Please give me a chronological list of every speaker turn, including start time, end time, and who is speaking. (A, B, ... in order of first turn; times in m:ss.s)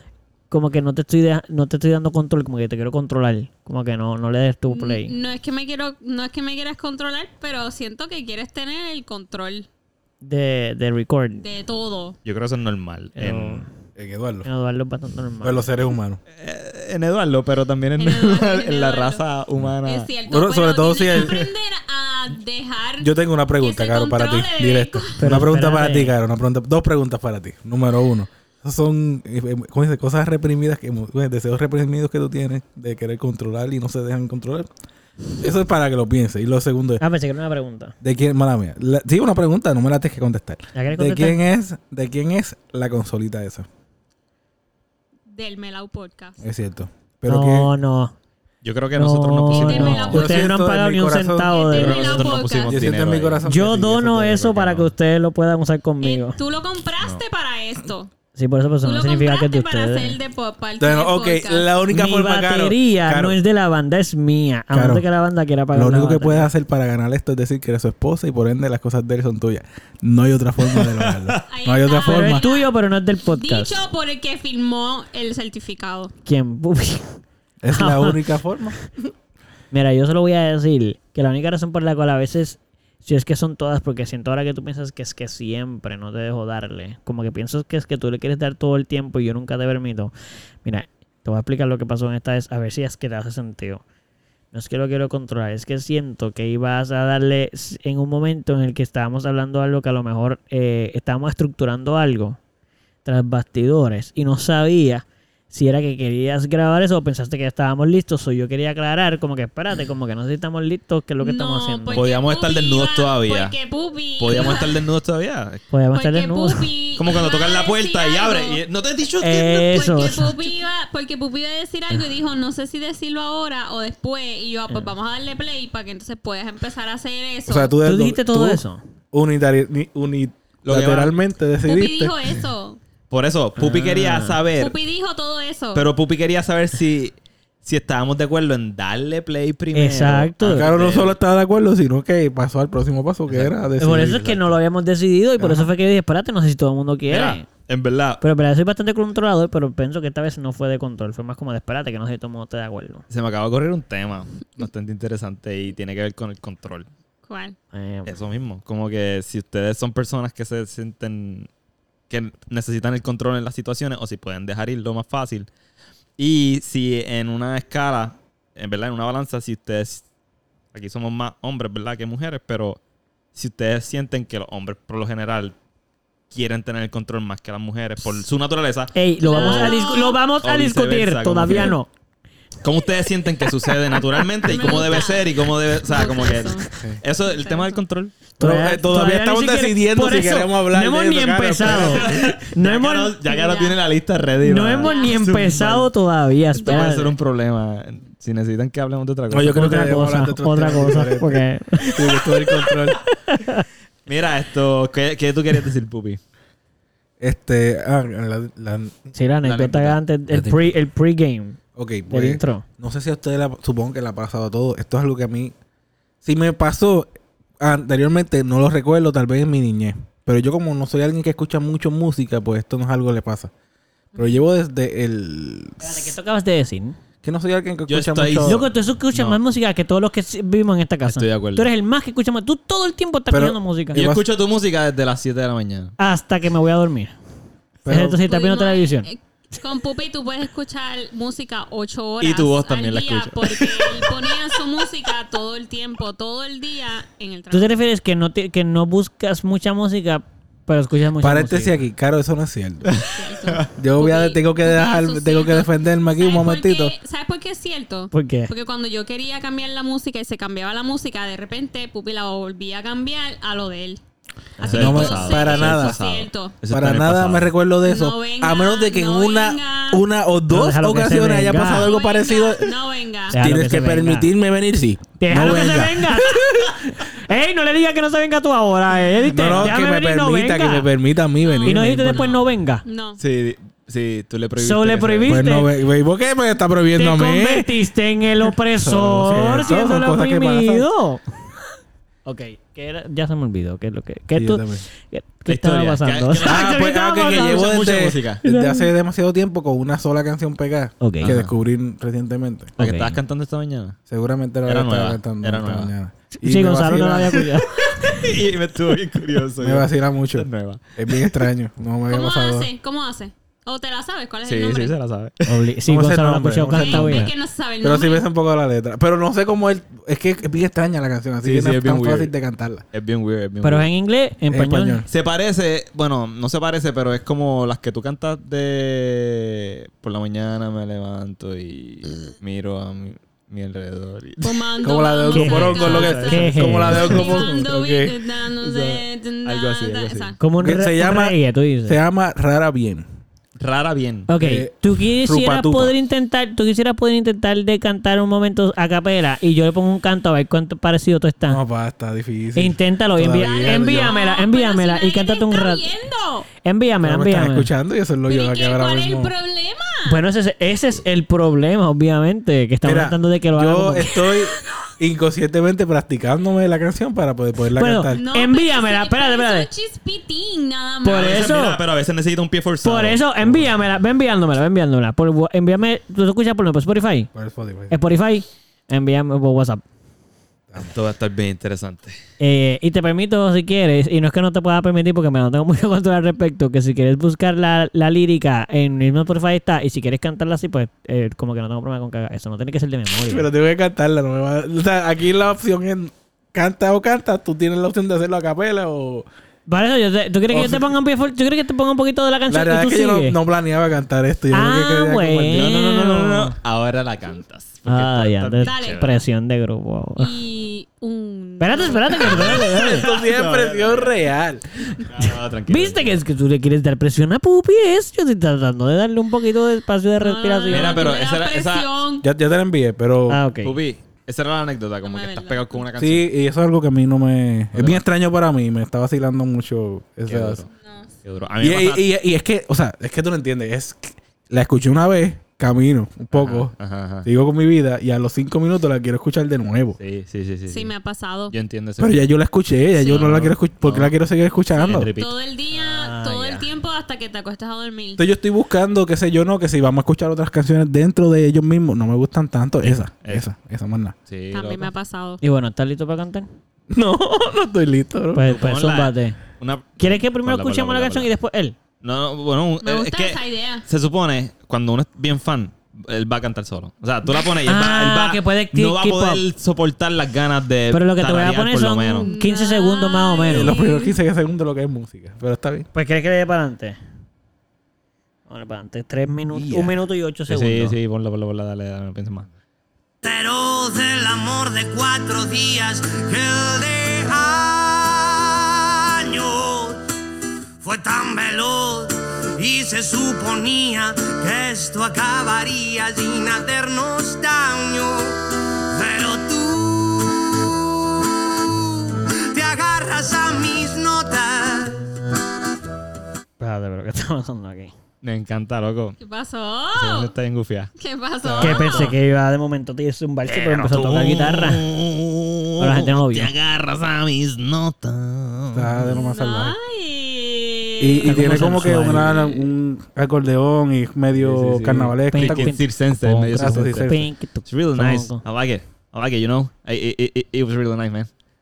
0:00.5-0:05.1 A
0:04.7-0:09.7 B
0:10.2-0:11.5 A
0:11.4-0:12.2 B
0:12.2-0:13.6 C
0:13.2-0:13.7 A
0:14.0-0:14.5 D
0:14.4-0:15.7 A
0:15.4-0:16.2 D
0:16.3-0:20.1 C
0:18.0-0:19.2 B
0:19.8-0:25.2 B
0:20.3-0:21.5 D
0:21.1-0:21.5 C
0:23.0-0:34.7 D
0:25.2-0:26.2 A
0:35.4-0:37.0 D
0:37.0-0:38.0 A
0:38.0-0:43.7 D
0:40.8-0:41.4 A
0:45.3-0:46.4 B
0:46.4-0:47.7 D
0:47.3-0:48.1 A
0:48.6-0:50.2 C
0:49.0-0:52.4 A
0:49.4-0:50.6 B
0:50.1-0:51.6 D
0:51.5-0:52.9 B
0:51.7-0:53.4 C
0:52.7-0:54.8 D
0:53.4-0:56.4 A
0:54.6-0:54.8 C
0:56.0-0:58.1 B
0:58.4-1:00.2 A
0:58.8-1:01.7 B
1:00.8-1:03.4 D
1:01.9-1:06.5 A
1:04.7-1:05.1 D
1:05.7-1:12.4 D
1:10.8-1:11.4 C
1:11.5-1:12.7 B
1:12.1-1:13.8 A
1:13.3-1:16.1 B
1:16.2-1:17.2 A
1:17.6-1:18.8 D
1:17.7-1:18.2 A
1:19.7-1:30.1 A
1:30.6-1:33.8 A
1:34.5-1:42.4 A
1:43.0-1:52.0 A
1:51.2-1:54.8 B
1:51.9-1:53.6 C
1:54.2-1:55.6 C
1:55.7-1:56.7 A
1:55.9-1:58.6 B
1:57.0-1:59.7 C
1:59.2-2:00.3 A
1:59.4-2:07.7 B
2:07.5-2:12.2 D
2:07.8-2:08.8 A
2:10.6-2:11.2 C
2:11.6-2:12.8 B
2:13.1-2:14.8 C
2:13.6-2:14.4 A
2:14.6-2:15.9 B
2:15.8-2:21.1 C
2:19.7-2:20.7 A
2:20.4-2:24.5 D
2:23.3-2:23.5 C
2:23.8-2:27.5 A
2:25.4-2:25.7 D
2:27.1-2:28.2 C
2:28.2-2:33.0 A
2:33.1-2:36.9 C
2:37.3-2:37.6 B
2:37.7-2:38.2 A
2:38.1-2:41.5 C
2:42.1-2:45.5 C
2:46.2-2:50.0 C
2:50.7-2:52.8 C
2:53.4-2:55.6 C
2:56.3-3:01.8 C
2:58.9-3:01.9 A
2:59.2-3:00.2 B
3:02.6-3:08.1 C
3:04.4-3:07.8 B
3:06.7-3:07.0 D
3:08.4-3:13.2 A
3:08.4-3:12.3 D
3:11.6-3:15.9 C
3:13.3-3:13.8 B
3:14.4-3:17.1 A
3:14.8-3:15.2 B
3:16.6-3:17.0 B
3:16.6-3:19.8 C
3:19.3-3:23.0 D
3:19.5-3:22.6 A
3:23.3-3:23.6 A
3:24.1-3:26.2 C
3:27.2-3:29.1 D
3:29.2-3:32.6 A
3:29.4-3:30.0 C
3:30.3-3:30.7 D
3:31.8-3:35.5 D
3:36.2-3:43.5 D
3:44.2-3:46.1 D
3:45.8-3:47.0 A
3:47.2-3:48.6 D
3:47.9-3:49.4 C
3:48.4-3:54.0 A
3:51.1-3:51.7 C
3:53.3-3:54.3 D
3:54.0-3:56.0 C
3:56.0-3:57.1 A
3:57.8-3:58.2 D
3:57.9-3:59.1 A
3:58.2-4:07.7 B
4:02.2-4:04.1 C
4:07.5-4:11.8 A
4:11.2-4:12.9 D
4:12.9-4:13.6 C
4:13.0-4:24.0 B
4:13.8-4:17.0 D
4:18.1-4:18.5 A
4:24.6-4:26.6 B
4:24.6-4:27.5 C
4:24.7-4:26.0 D
4:26.7-4:32.7 D
4:27.8-4:30.0 B
4:30.5-4:31.9 A
4:31.6-4:33.3 B
4:33.3-4:36.8 D
4:33.3-4:34.3 A
4:35.2-4:40.9 A
4:39.3-4:42.3 D
4:41.4-4:43.2 B
4:41.6-4:42.8 A
4:43.2-4:45.5 C
4:44.6-4:45.7 A
4:45.3-4:47.7 D
4:47.0-4:51.2 A
4:48.7-4:50.9 D
4:52.2-4:57.8 A
4:54.3-4:54.8 D
4:55.5-4:58.4 C
4:56.4-5:02.8 D
4:58.4-4:58.9 A
5:01.0-5:01.4 A
5:01.2-5:01.5 C
5:02.8-5:03.2 A
5:02.8-5:04.0 C
5:04.1-5:07.5 D
5:04.7-5:05.9 C
5:06.4-5:08.2 A
5:07.8-5:11.3 C
5:09.6-5:12.7 D
5:12.1-5:14.9 B
5:14.4-5:15.7 C
5:15.5-5:17.3 A
5:15.9-5:17.3 D
5:16.7-5:18.2 B
5:17.8-5:22.8 D
5:21.4-5:22.3 C
5:22.9-5:23.9 C
5:23.6-5:25.0 A
5:24.5-5:25.1 D
5:25.1-5:34.6 C
5:34.4-5:40.4 B
5:34.8-5:38.3 D
5:35.3-5:37.3 A
5:38.6-5:40.3 C
5:40.4-5:42.0 A
5:40.6-5:43.1 D
5:43.6-5:44.3 C
5:44.3-5:51.6 A
5:44.4-5:45.9 D
5:51.5-5:54.2 D
5:52.6-5:55.9 A
5:53.6-5:56.5 B
5:56.6-5:57.7 A
5:57.0-5:59.3 D
5:58.3-6:00.2 B
6:00.1-6:04.2 A
6:02.8-6:08.2 D
6:07.8-6:09.7 A
6:08.1-6:11.4 B
6:11.0-6:11.8 A
6:11.0-6:13.6 C
6:12.8-6:17.3 A
6:17.3-6:18.0 D
6:17.9-6:19.8 A
6:20.8-6:22.2 C
6:22.4-6:33.5 A
6:33.2-6:39.3 D
6:39.7-6:43.4 A
6:40.5-6:40.9 D
6:42.5-6:45.8 D
6:44.5-6:46.6 A
6:45.5-6:49.2 C
6:47.9-6:50.3 A
6:48.6-6:49.0 B
6:50.2-6:52.7 B
6:51.6-6:53.1 A
6:52.1-6:54.1 C
6:52.3-6:54.9 D
6:55.1-6:56.2 C
6:55.7-7:01.1 A
7:00.2-7:02.3 B
7:00.7-7:01.9 C
7:02.2-7:03.4 D
7:03.3-7:03.8 A
7:03.6-7:06.3 C
7:05.0-7:05.8 B
7:06.0-7:10.6 D
7:07.7-7:08.0 C
7:10.3-7:10.7 C
7:10.8-7:11.1 B
7:11.2-7:12.0 C
7:11.6-7:20.0 D
7:16.3-7:17.3 C
7:20.0-7:20.9 C
7:20.7-7:21.6 B
7:21.5-7:22.3 C
7:22.0-7:25.1 D
7:23.0-7:24.1 C
7:24.8-7:28.2 B
7:24.8-7:25.3 C
7:25.7-7:26.7 A
7:28.2-7:34.2 D
7:32.8-7:33.4 C
7:34.3-7:34.9 C
7:34.5-7:35.4 B
7:35.4-7:36.5 A
7:36.9-7:38.5 D
7:38.3-7:39.4 A
7:38.4-7:41.3 C
7:40.0-7:41.8 A
7:42.0-7:52.3 C
7:42.8-7:43.9 B
7:47.7-7:49.4 A
7:50.9-7:53.7 A
7:52.2-7:54.2 B
7:53.4-7:55.9 D
7:55.9-7:57.0 A
7:58.5-8:01.0 A
7:59.5-8:00.0 D
8:00.5-8:02.5 C
8:03.2-8:10.0 E
8:10.8-8:25.1 E
8:26.6-8:27.9 A
8:28.2-8:29.2 C
8:29.2-8:30.3 B
8:30.0-8:30.9 C
8:31.0-8:32.1 B
8:31.4-8:32.2 D
8:31.6-8:34.9 A
8:33.5-8:39.1 C
8:35.8-8:36.5 A
8:38.7-8:39.8 D
8:39.1-8:42.6 B
8:41.0-8:45.8 D
8:41.2-8:42.4 A
8:44.3-8:51.3 C
8:45.3-8:48.4 A
8:46.5-8:47.3 D